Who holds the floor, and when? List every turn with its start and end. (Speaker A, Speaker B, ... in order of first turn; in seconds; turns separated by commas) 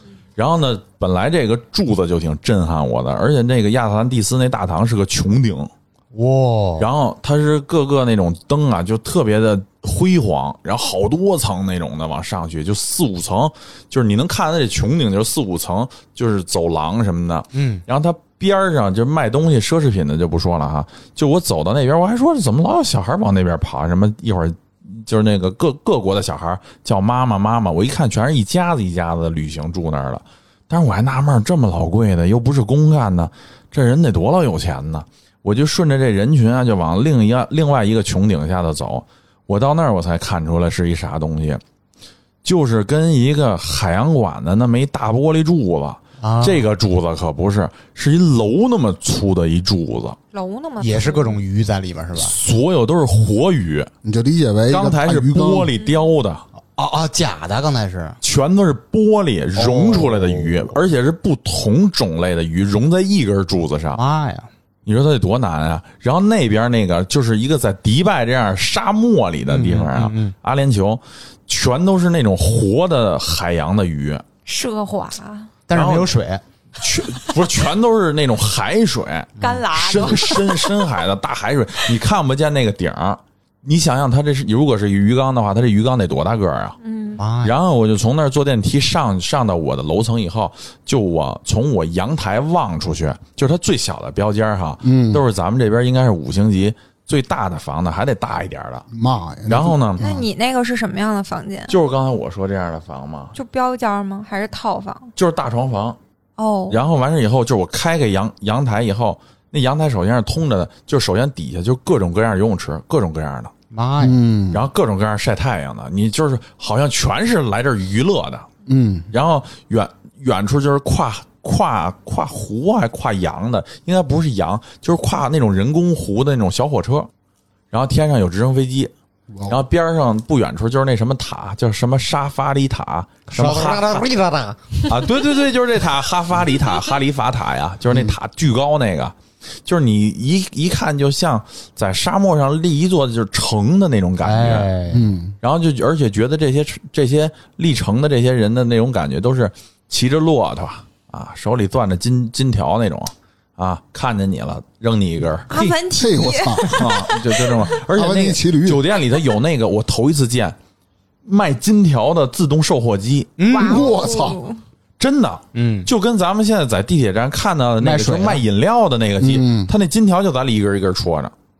Speaker A: 0.4-5.7, Speaker B: 6.1-6.9, Speaker A: 6.8-41.6, Speaker B: 17.5-17.8, Speaker A: 42.4-50.2, Speaker B: 46.2-46.6, Speaker C: 50.3-51.4, Speaker B: 50.8-52.3, Speaker A: 52.1-53.9, Speaker D: 54.0-55.7, Speaker A: 54.7-56.4, Speaker B: 56.8-58.2, Speaker A: 58.2-64.0, Speaker B: 59.5-60.8, Speaker B: 63.9-64.5, Speaker A: 64.8-74.2, Speaker B: 69.5-70.3, Speaker C: 74.5-75.5, Speaker B: 75.7-76.4, Speaker A: 75.7-76.1, Speaker A: 76.8-86.8, Speaker B: 79.4-79.6, Speaker C: 79.4-80.7, Speaker C: 86.8-87.2, Speaker B: 87.2-87.5, Speaker A: 87.4-98.8, Speaker D: 94.8-95.2, Speaker D: 98.9-100.2, Speaker A: 99.5-100.0, Speaker C: 100.0-101.7, Speaker A: 101.7-103.3, Speaker C: 103.3-105.1, Speaker A: 105.2-106.0, Speaker C: 106.4-106.8, Speaker A: 106.7-113.5, Speaker B: 113.7-114.2, Speaker D: 114.0-114.7, Speaker A: 114.5-118.5, Speaker D: 118.7-119.1, Speaker A: 119.1-127.1, Speaker A: 127.7-128.9, Speaker D: 129.3-129.6, Speaker A: 129.5-134.2, Speaker B: 133.4-134.5, Speaker A: 134.8-144.7, Speaker B: 144.2-145.1, Speaker D: 144.9-145.3, Speaker A: 145.4-155.5, Speaker C: 155.5-157.2, Speaker D: 155.6-156.9, Speaker A: 156.6-160.6, Speaker D: 157.9-158.8, Speaker A: 161.2-163.3, Speaker B: 163.4-163.9, Speaker C: 163.5-164.6, Speaker D: 163.6-164.4, Speaker A: 165.0-171.3, Speaker B: 165.5-165.9, Speaker B: 167.8-168.4, Speaker D: 169.2-169.7